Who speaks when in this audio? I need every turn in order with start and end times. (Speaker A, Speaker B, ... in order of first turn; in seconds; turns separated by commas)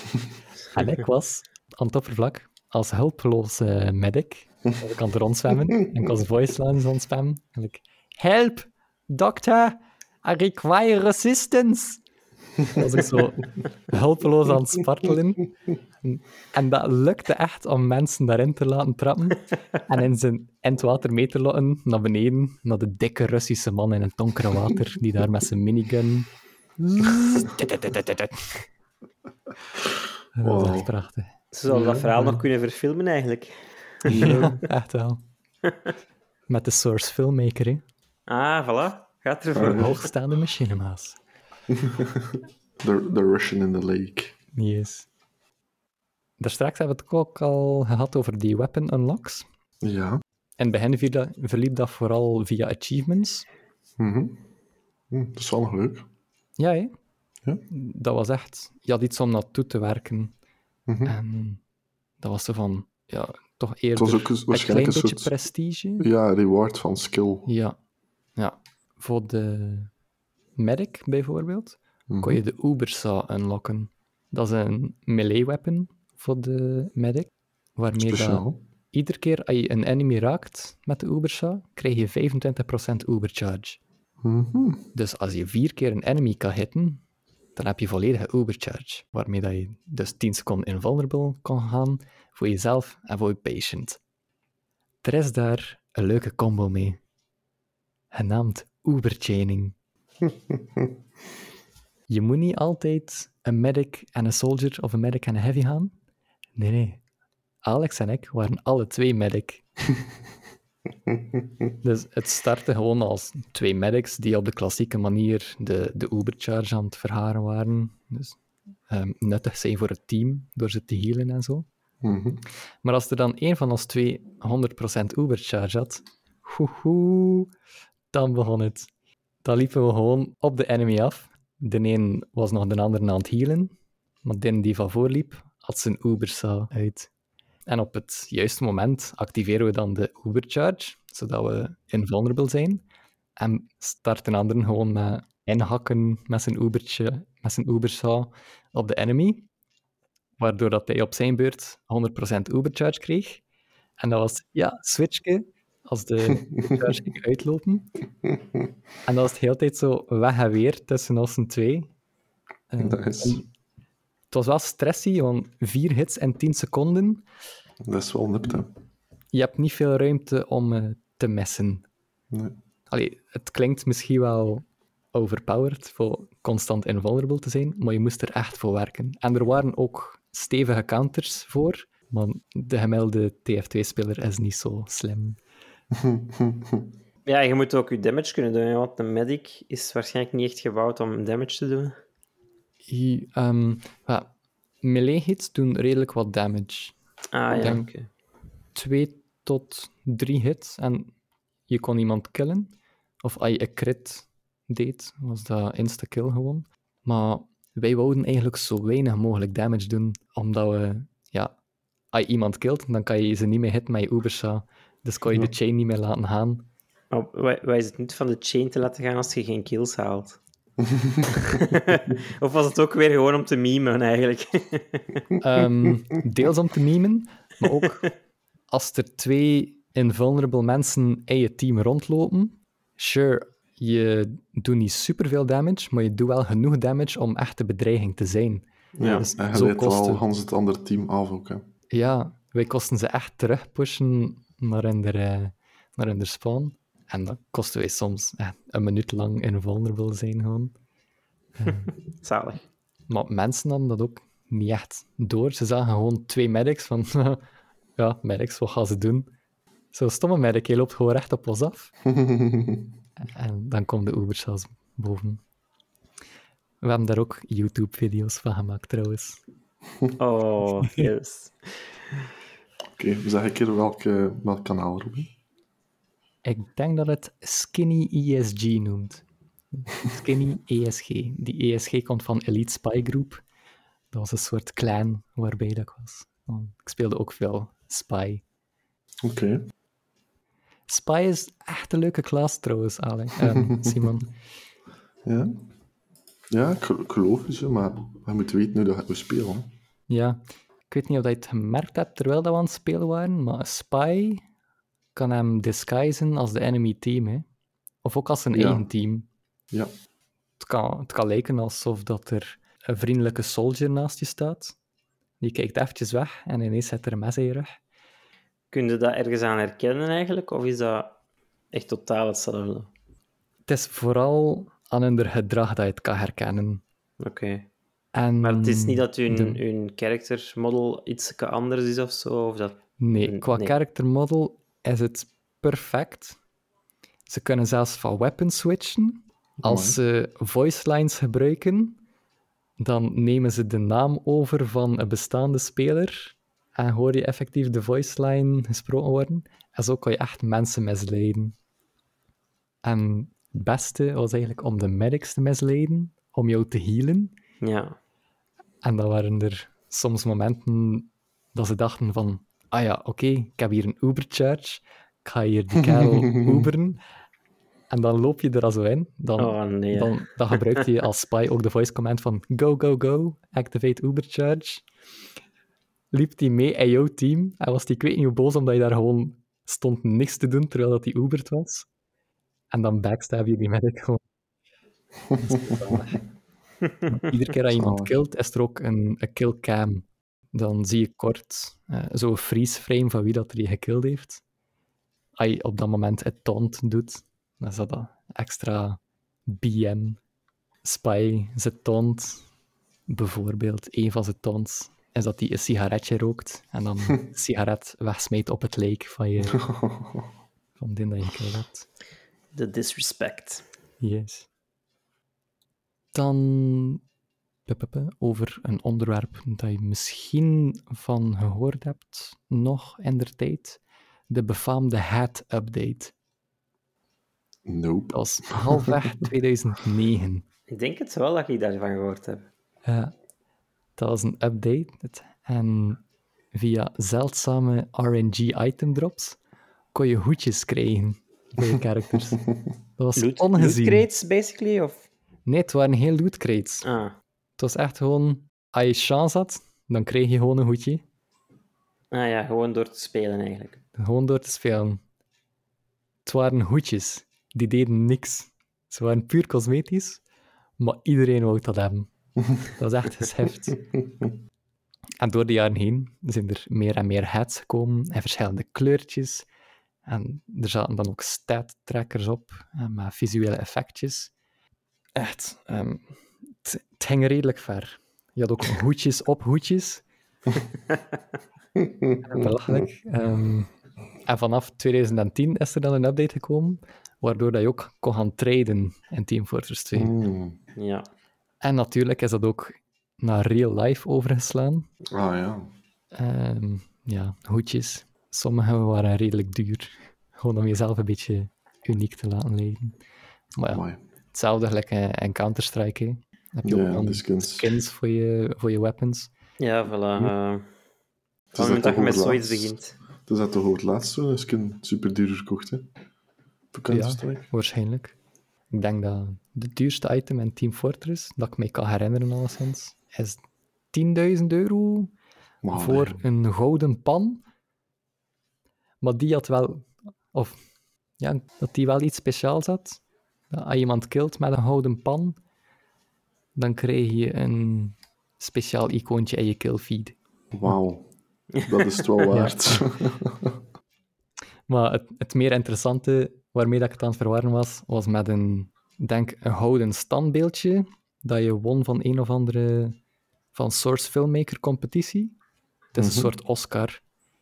Speaker A: 0.7-12.0, Speaker A: 12.7-15.5, Speaker A: 16.0-26.3, Speaker B: 26.8-27.6, Speaker A: 27.0-28.7, Speaker A: 30.4-31.3, Speaker B: 30.4-30.9, Speaker C: 31.5-34.3, Speaker B: 31.7-32.1, Speaker A: 32.0-32.4, Speaker A: 34.1-35.2, Speaker B: 34.1-34.6, Speaker A: 36.5-37.8, Speaker C: 38.3-40.0, Speaker B: 39.5-39.9, Speaker A: 39.6-41.2, Speaker B: 41.7-44.4, Speaker A: 44.5-45.1, Speaker A: 46.4-49.5, Speaker B: 49.8-50.2, Speaker A: 50.6-53.5, Speaker B: 54.0-54.5, Speaker B: 55.1-56.1, Speaker A: 56.6-56.9, Speaker A: 57.7-60.3, Speaker B: 60.9-61.1, Speaker A: 61.0-61.6, Speaker A: 62.2-66.1, Speaker B: 64.0-65.3, Speaker B: 66.0-67.5, Speaker A: 67.5-67.8, Speaker A: 68.4-69.9, Speaker A: 70.6-83.8, Speaker B: 72.1-72.4, Speaker B: 77.9-78.6, Speaker B: 84.2-84.9, Speaker A: 84.9-87.0, Speaker A: 87.6-94.0, Speaker A: 95.0-97.0, Speaker A: 98.1-99.8, Speaker A: 102.1-105.9, Speaker A: 106.5-107.0, Speaker A: 107.7-109.7, Speaker A: 111.8-121.7, Speaker B: 122.0-122.4, Speaker A: 122.8-127.5, Speaker A: 128.1-128.9, Speaker A: 129.4-137.1, Speaker A: 137.7-142.8, Speaker A: 143.4-149.5, Speaker A: 150.4-153.4, Speaker A: 154.0-157.9, Speaker B: 156.3-156.9, Speaker B: 158.2-158.6, Speaker A: 159.1-161.9, Speaker A: 162.7-163.5, Speaker B: 162.8-163.4, Speaker A: 164.3-167.2, Speaker B: 167.8-168.7, Speaker A: 169.3-171.8, Speaker B: 172.3-172.6, Speaker A: 172.9-185.4, Speaker B: 185.9-186.9, Speaker C: 187.3-192.0, Speaker A: 192.9-197.0, Speaker C: 197.3-198.1, Speaker A: 197.5-197.9, Speaker A: 198.7-201.1, Speaker A: 201.7-202.7, Speaker A: 203.2-211.5, Speaker A: 212.1-216.7, Speaker C: 217.1-220.4, Speaker B: 220.8-221.6, Speaker C: 221.4-225.2, Speaker A: 225.4-228.1, Speaker A: 228.7-240.2, Speaker B: 239.0-241.7, Speaker A: 241.9-250.7, Speaker A: 251.6-251.9, Speaker C: 251.7-252.6, Speaker A: 253.1-257.4, Speaker A: 258.0-259.3, Speaker A: 259.9-261.9, Speaker B: 262.1-262.9, Speaker A: 263.2-265.4, Speaker A: 266.8-269.4, Speaker C: 270.2-272.0, Speaker A: 270.8-271.1, Speaker B: 273.0-275.3, Speaker A: 276.4-283.4, Speaker A: 284.1-288.4, Speaker B: 289.2-289.7, Speaker A: 290.9-294.3, Speaker B: 293.5-294.1, Speaker B: 295.2-295.6, Speaker B: 296.5-299.7, Speaker A: 300.1-304.4, Speaker A: 305.1-307.5, Speaker A: 308.0-309.3, Speaker B: 308.5-308.9, Speaker A: 310.6-314.8, Speaker A: 315.4-317.8, Speaker C: 318.7-321.1, Speaker C: 321.7-322.9, Speaker A: 323.7-326.8, Speaker C: 327.2-327.7, Speaker A: 328.1-329.6, Speaker C: 328.4-333.7, Speaker A: 333.0-336.4, Speaker A: 337.3-342.0, Speaker B: 339.6-340.0, Speaker A: 342.8-351.6, Speaker A: 352.8-357.3, Speaker C: 357.6-358.0, Speaker A: 358.8-367.0, Speaker B: 365.9-366.7, Speaker A: 367.9-374.9, Speaker C: 369.4-370.9, Speaker A: 376.1-381.9, Speaker A: 382.7-384.2, Speaker B: 385.3-386.0, Speaker A: 385.4-386.2, Speaker A: 387.1-394.4, Speaker B: 387.8-388.1, Speaker A: 395.4-400.2, Speaker A: 400.8-402.5, Speaker A: 403.1-409.7, Speaker B: 409.5-410.3, Speaker A: 410.8-411.9, Speaker C: 412.5-413.6, Speaker A: 414.0-414.5, Speaker A: 416.1-417.0, Speaker A: 417.7-426.1, Speaker B: 427.7-429.1, Speaker A: 428.1-430.4, Speaker C: 430.7-432.5, Speaker A: 432.9-433.1, Speaker A: 434.0-436.0, Speaker A: 436.5-439.4, Speaker A: 439.9-442.5, Speaker A: 443.0-444.1, Speaker C: 443.2-445.0, Speaker A: 445.5-446.9, Speaker C: 446.8-447.1, Speaker A: 447.6-451.0, Speaker C: 452.1-453.8, Speaker A: 454.0-455.0, Speaker A: 456.2-460.2, Speaker A: 460.8-463.8, Speaker B: 463.9-464.3, Speaker A: 465.2-469.5, Speaker A: 470.1-474.3, Speaker A: 475.1-480.0, Speaker B: 481.8-482.8, Speaker A: 482.2-483.7, Speaker A: 484.2-490.1, Speaker B: 490.0-490.6, Speaker C: 490.8-491.1, Speaker A: 491.6-494.9, Speaker B: 495.1-495.7, Speaker A: 496.1-503.0, Speaker A: 503.6-509.3, Speaker B: 503.7-504.0, Speaker B: 506.6-507.8, Speaker C: 509.6-510.7, Speaker B: 511.5-512.8, Speaker C: 511.6-513.0, Speaker B: 513.3-515.9, Speaker B: 516.7-517.5, Speaker A: 516.9-518.2, Speaker A: 518.7-523.4, Speaker A: 523.9-525.1, Speaker B: 525.6-526.2, Speaker A: 525.7-527.4, Speaker A: 529.0-530.6, Speaker A: 531.2-535.4, Speaker A: 536.5-540.7, Speaker B: 540.5-543.6, Speaker C: 541.6-542.1, Speaker A: 542.3-542.8, Speaker A: 544.7-553.0, Speaker A: 553.5-555.4, Speaker A: 555.9-557.0, Speaker B: 556.0-556.3